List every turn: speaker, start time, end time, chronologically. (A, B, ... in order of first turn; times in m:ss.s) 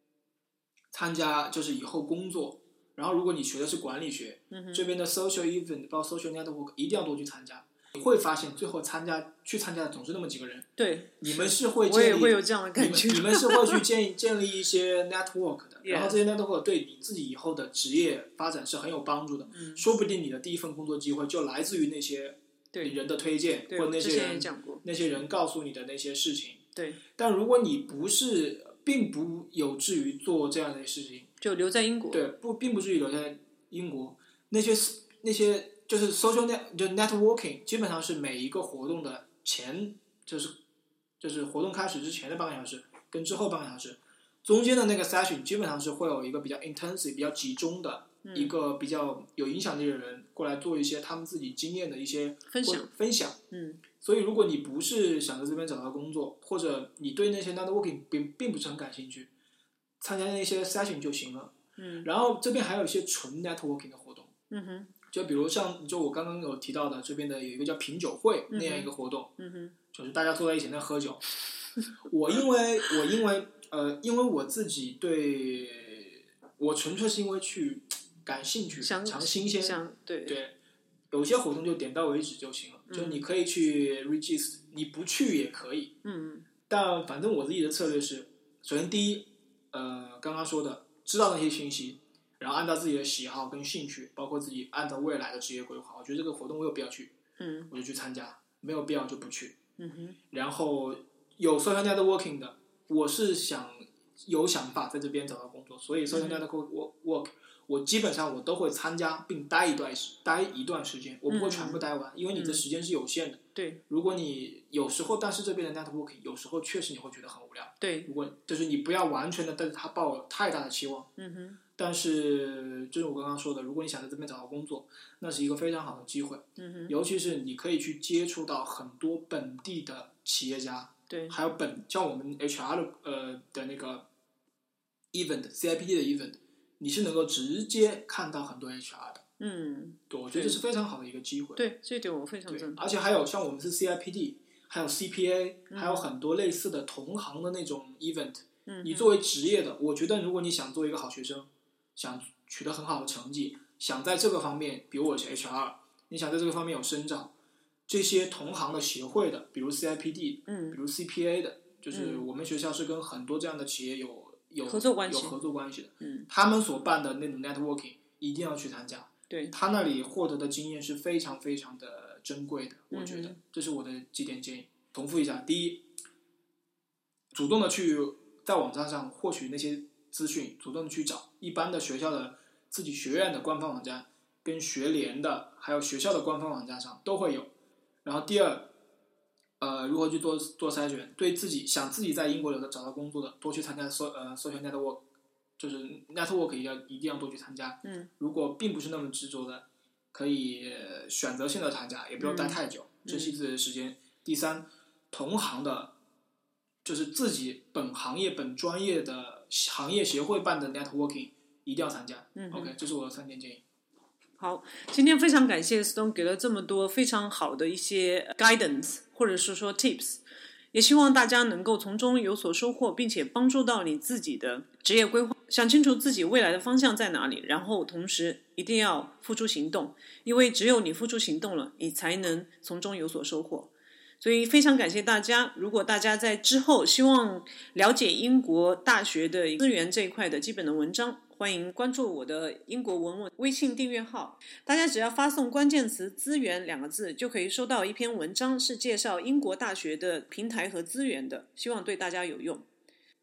0:00.9-0:10.7 A
0:04.5-0:04.9 B
0:10.8-0:13.8 B
0:11.2-0:26.6 A
0:15.8-0:16.2 B
0:19.5-0:19.8 B
0:22.7-0:23.0 B
0:23.7-0:24.8 B
0:26.7-0:27.0 B
0:27.2-0:31.3 A
0:31.4-0:32.3 B
0:32.1-0:40.6 A
0:41.2-0:53.4 A
0:48.2-0:48.6 B
0:52.5-0:52.9 B
0:53.5-0:53.8 B
0:54.0-0:59.3 A
1:00.0-1:04.3 A
1:01.8-1:02.1 B
1:04.5-1:04.9 B
1:05.1-1:09.3 A
1:08.5-1:09.7 B
1:09.9-1:11.2 A
1:12.1-1:20.5 A
1:18.8-1:20.4 B
1:21.1-1:25.9 A
1:22.9-1:23.2 B
1:26.0-1:26.5 B
1:26.7-1:37.1 A
1:37.4-1:37.7 B
1:37.7-1:39.6 A
1:39.8-1:40.2 B
1:40.3-2:01.1 A
1:46.1-1:46.4 B
1:51.3-1:52.6 B
1:53.5-1:53.8 B
1:57.8-1:58.1 B
2:01.2-2:01.6 B
2:01.8-2:14.1 A
2:06.6-2:06.9 B
2:11.1-2:11.4 B
2:15.1-2:19.2 A
2:19.4-2:20.6 B
2:20.1-2:21.6 A
2:21.6-2:22.8 B
2:22.5-2:37.3 A
2:25.7-2:26.0 B
2:28.7-2:29.1 B
2:37.9-2:55.9 A
2:40.5-2:40.8 B
2:41.9-2:42.2 B
2:44.6-2:45.3 B
2:46.0-2:46.3 B
2:49.3-2:49.5 B
2:52.9-2:53.4 B
2:57.3-3:07.5 A
3:08.0-3:08.7 A
3:09.6-3:15.0 A
3:15.6-3:25.9 A
3:22.2-3:23.4 B
3:26.8-3:33.6 A
3:32.4-3:32.7 B
3:34.4-4:12.7 B